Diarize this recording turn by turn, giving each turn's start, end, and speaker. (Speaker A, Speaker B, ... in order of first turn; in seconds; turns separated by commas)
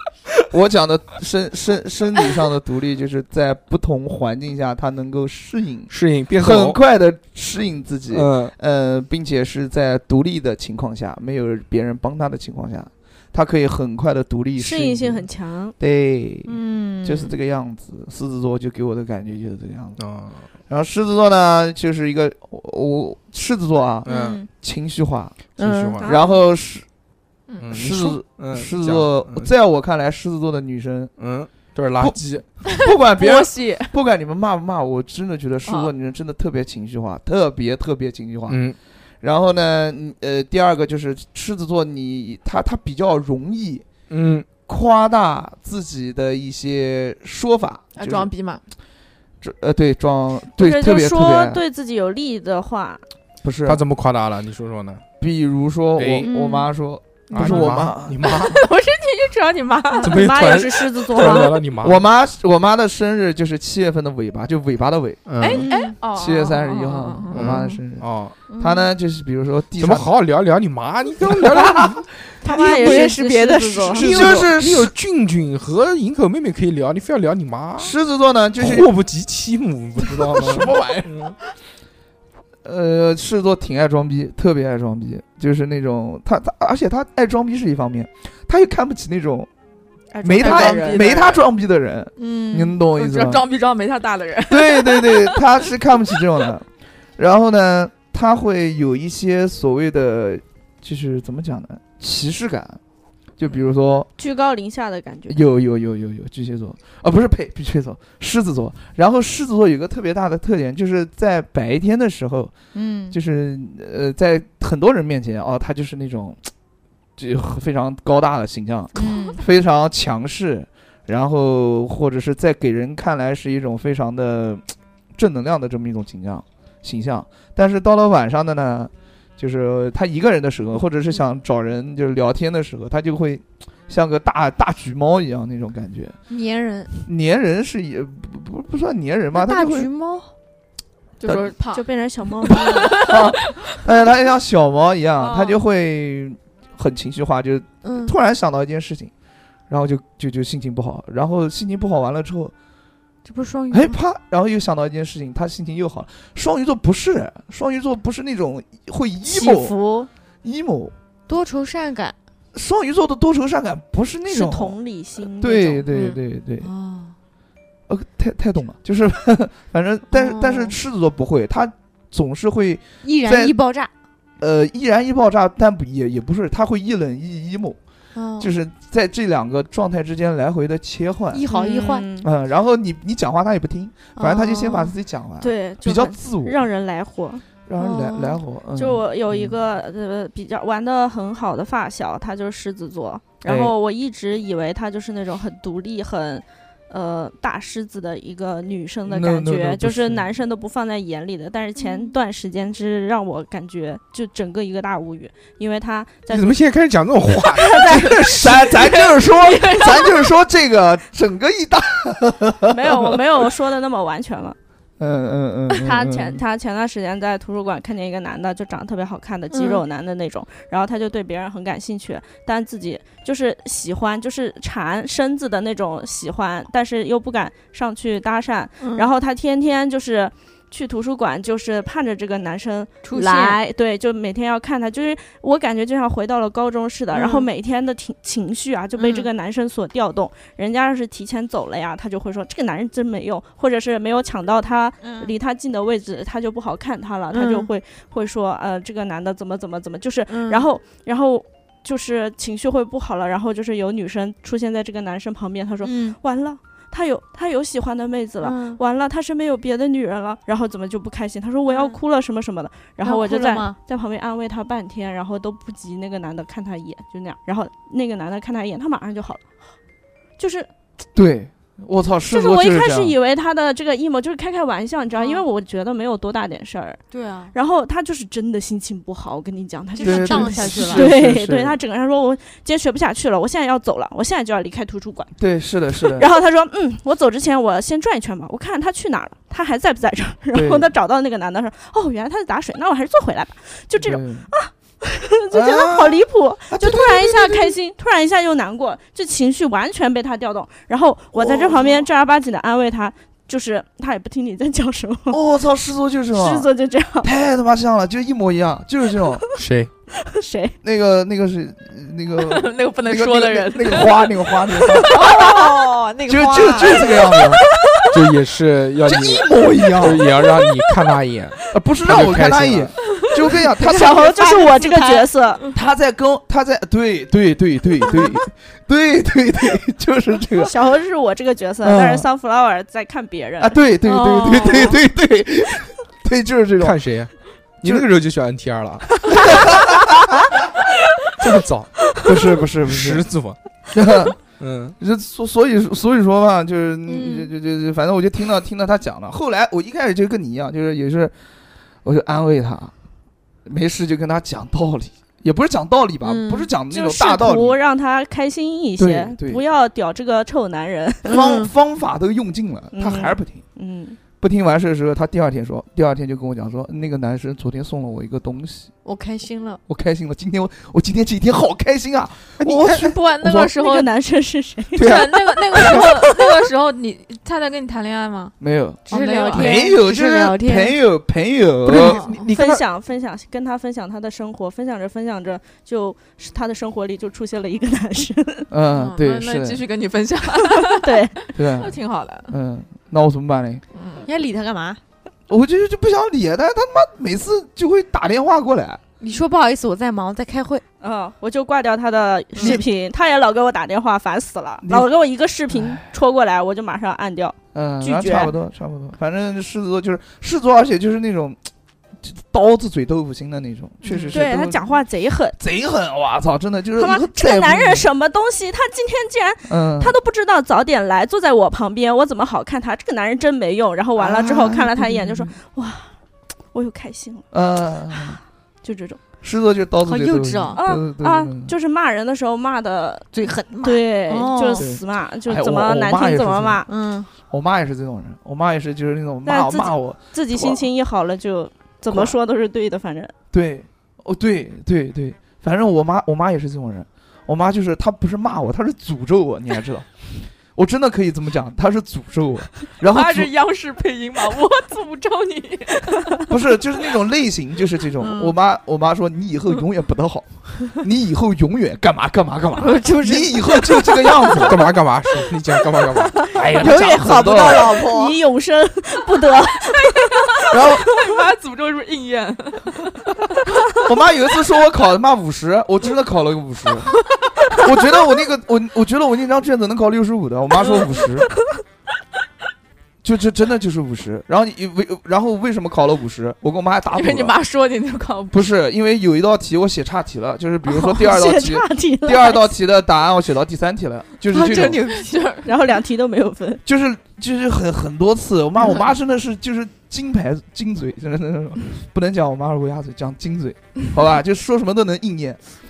Speaker A: 0.5-20.0, Speaker B: 5.9-6.8, Speaker B: 8.1-8.5, Speaker C: 14.6-15.7, Speaker D: 16.4-17.3, Speaker B: 20.0-20.4, Speaker A: 20.7-25.5, Speaker B: 24.0-24.4, Speaker D: 24.0-24.5, Speaker D: 25.6-26.0, Speaker B: 25.6-26.1, Speaker A: 26.0-26.9, Speaker E: 27.5-27.7, Speaker B: 27.6-29.5, Speaker A: 27.7-31.1, Speaker B: 31.2-32.5, Speaker A: 32.0-38.6, Speaker E: 32.6-33.9, Speaker E: 35.6-35.9, Speaker B: 38.5-38.8, Speaker A: 39.2-43.9, Speaker B: 44.1-44.5, Speaker A: 44.7-48.3, Speaker E: 48.0-48.6, Speaker A: 49.4-51.6, Speaker C: 50.6-53.0, Speaker A: 53.4-53.8, Speaker B: 53.6-55.0, Speaker A: 55.2-58.4, Speaker B: 56.0-56.3, Speaker D: 56.2-56.7, Speaker B: 57.3-58.6, Speaker E: 58.3-60.3, Speaker B: 60.0-62.0, Speaker C: 60.0-61.6, Speaker A: 61.8-65.2, Speaker B: 65.2-65.6, Speaker E: 65.4-67.8, Speaker D: 65.6-65.9, Speaker C: 65.6-65.9, Speaker A: 66.1-68.1, Speaker B: 67.3-68.3, Speaker D: 68.5-68.9, Speaker A: 68.6-70.1, Speaker B: 69.8-72.0, Speaker A: 71.2-72.0, Speaker D: 72.4-74.5, Speaker C: 72.4-74.1, Speaker E: 72.5-73.2, Speaker A: 73.9-74.9, Speaker B: 74.0-77.9, Speaker A: 77.8-78.9, Speaker B: 78.6-81.3, Speaker A: 80.1-81.2, Speaker A: 82.6-89.5, Speaker E: 90.2-91.4, Speaker A: 90.2-93.5, Speaker D: 90.4-90.9, Speaker D: 92.2-92.8, Speaker E: 92.9-95.5, Speaker A: 94.5-96.7, Speaker A: 97.2-102.8, Speaker A: 103.4-104.1, Speaker C: 104.2-105.4, Speaker A: 105.3-112.5, Speaker D: 112.7-113.2, Speaker A: 113.1-116.5, Speaker A: 117.2-136.2, Speaker D: 119.0-119.4, Speaker D: 136.3-136.9, Speaker A: 137.0-139.9, Speaker D: 139.3-140.3, Speaker E: 141.2-141.9, Speaker C: 141.7-143.1, Speaker E: 142.4-143.8, Speaker A: 142.9-149.1, Speaker C: 145.2-145.6, Speaker D: 147.8-148.1, Speaker A: 149.7-152.5, Speaker D: 153.2-154.0, Speaker A: 153.7-159.7, Speaker D: 159.3-160.1, Speaker A: 160.4-160.9, Speaker D: 161.3-162.2, Speaker A: 162.5-166.7, Speaker C: 164.3-165.8, Speaker D: 165.9-167.1, Speaker A: 167.9-173.5, Speaker D: 170.1-170.8, Speaker D: 173.0-173.9, Speaker A: 174.4-177.8, Speaker D: 178.1-178.5, Speaker A: 178.4-181.4, Speaker D: 181.3-182.1, Speaker C: 181.5-182.3, Speaker A: 182.2-186.6, Speaker D: 184.2-184.9, Speaker C: 185.4-187.4, Speaker A: 187.7-189.6, Speaker D: 187.8-188.4, Speaker C: 188.8-206.6, Speaker A: 193.4-193.7, Speaker A: 199.1-200.3, Speaker D: 201.8-202.1, Speaker B: 206.3-208.5, Speaker C: 207.4-208.7, Speaker A: 207.9-213.2, Speaker E: 208.7-210.2, Speaker C: 212.7-214.6, Speaker A: 215.0-216.4, Speaker C: 215.8-269.6, Speaker D: 219.5-219.8, Speaker D: 228.8-229.1, Speaker D: 233.0-233.6, Speaker D: 237.1-237.5, Speaker D: 239.0-239.3, Speaker D: 245.0-245.3, Speaker D: 247.3-247.7, Speaker D: 250.3-250.7, Speaker D: 255.8-256.2, Speaker D: 258.4-258.8, Speaker D: 261.6-262.0, Speaker D: 263.0-263.8, Speaker C: 270.4-270.7, Speaker A: 271.1-273.1, Speaker C: 272.3-285.3, Speaker D: 275.1-275.4, Speaker D: 277.1-277.5, Speaker D: 279.9-281.1, Speaker A: 280.0-281.8, Speaker A: 285.4-286.3, Speaker C: 286.0-305.4, Speaker A: 290.5-290.9, Speaker A: 293.9-294.5, Speaker A: 295.5-297.8, Speaker A: 301.3-302.0, Speaker A: 305.3-306.7, Speaker C: 306.3-307.3, Speaker A: 307.2-309.4, Speaker B: 309.5-309.9, Speaker C: 310.3-310.8, Speaker A: 310.8-315.1, Speaker E: 312.4-314.3, Speaker D: 315.1-317.1, Speaker A: 316.3-317.6, Speaker B: 318.1-322.9, Speaker A: 319.0-320.3, Speaker A: 321.7-324.3, Speaker D: 323.8-325.3, Speaker C: 323.8-325.6, Speaker A: 325.7-330.7, Speaker C: 330.6-333.8, Speaker A: 331.8-332.3, Speaker A: 333.6-337.0, Speaker D: 334.0-335.0, Speaker B: 336.8-339.3, Speaker A: 339.3-340.2, Speaker B: 341.3-341.9, Speaker A: 342.2-343.3, Speaker B: 342.8-343.6, Speaker A: 343.9-344.4, Speaker B: 344.6-344.9, Speaker A: 345.0-351.3, Speaker A: 352.0-352.9, Speaker A: 353.6-357.8, Speaker D: 356.2-356.7, Speaker C: 356.9-361.4, Speaker A: 359.0-359.6, Speaker A: 361.2-363.6, Speaker D: 361.3-361.7, Speaker C: 362.9-364.2, Speaker A: 364.4-368.9, Speaker D: 369.0-369.8, Speaker A: 369.9-373.7, Speaker E: 372.7-374.1, Speaker C: 373.6-376.5, Speaker E: 374.9-378.5, Speaker A: 375.0-376.0, Speaker A: 378.6-382.2, Speaker E: 379.1-379.9, Speaker D: 379.1-381.0, Speaker C: 381.9-388.7, Speaker D: 381.9-382.3, Speaker B: 382.3-382.8, Speaker A: 388.7-389.8, Speaker E: 388.9-392.5, Speaker C: 390.6-391.3, Speaker A: 391.5-392.0, Speaker A: 392.5-393.8, Speaker E: 393.9-394.3, Speaker D: 394.2-395.0, Speaker A: 395.5-399.0, Speaker D: 399.2-400.8, Speaker C: 401.0-408.5, Speaker A: 402.6-402.8, Speaker A: 404.8-405.1, Speaker A: 405.7-406.0, Speaker A: 407.7-411.6, Speaker A: 412.2-415.0, Speaker D: 414.0-414.3, Speaker C: 414.3-415.6, Speaker A: 415.6-418.1, Speaker C: 417.0-426.1, Speaker A: 419.6-420.1, Speaker A: 424.1-425.5, Speaker C: 426.7-427.5, Speaker A: 427.5-428.4, Speaker C: 428.1-429.2, Speaker A: 429.4-431.7, Speaker D: 430.0-430.8, Speaker C: 430.8-433.3, Speaker D: 433.3-434.9, Speaker C: 433.8-436.9, Speaker A: 434.8-436.9, Speaker D: 436.9-437.3, Speaker A: 437.5-440.9, Speaker C: 439.4-443.3, Speaker A: 442.1-442.4, Speaker A: 443.5-453.5, Speaker E: 453.0-456.4, Speaker A: 456.5-464.9, Speaker D: 458.2-458.5, Speaker D: 462.8-464.5, Speaker B: 464.6-466.4, Speaker C: 466.4-471.0, Speaker A: 466.5-467.9, Speaker D: 466.7-468.4, Speaker E: 470.1-473.3, Speaker A: 470.7-471.1, Speaker A: 473.9-481.5, Speaker A: 483.2-487.5, Speaker E: 487.1-488.6, Speaker A: 488.5-495.0, Speaker C: 490.9-492.7, Speaker D: 494.5-495.4, Speaker E: 494.7-495.7, Speaker C: 495.6-496.8, Speaker A: 496.8-505.6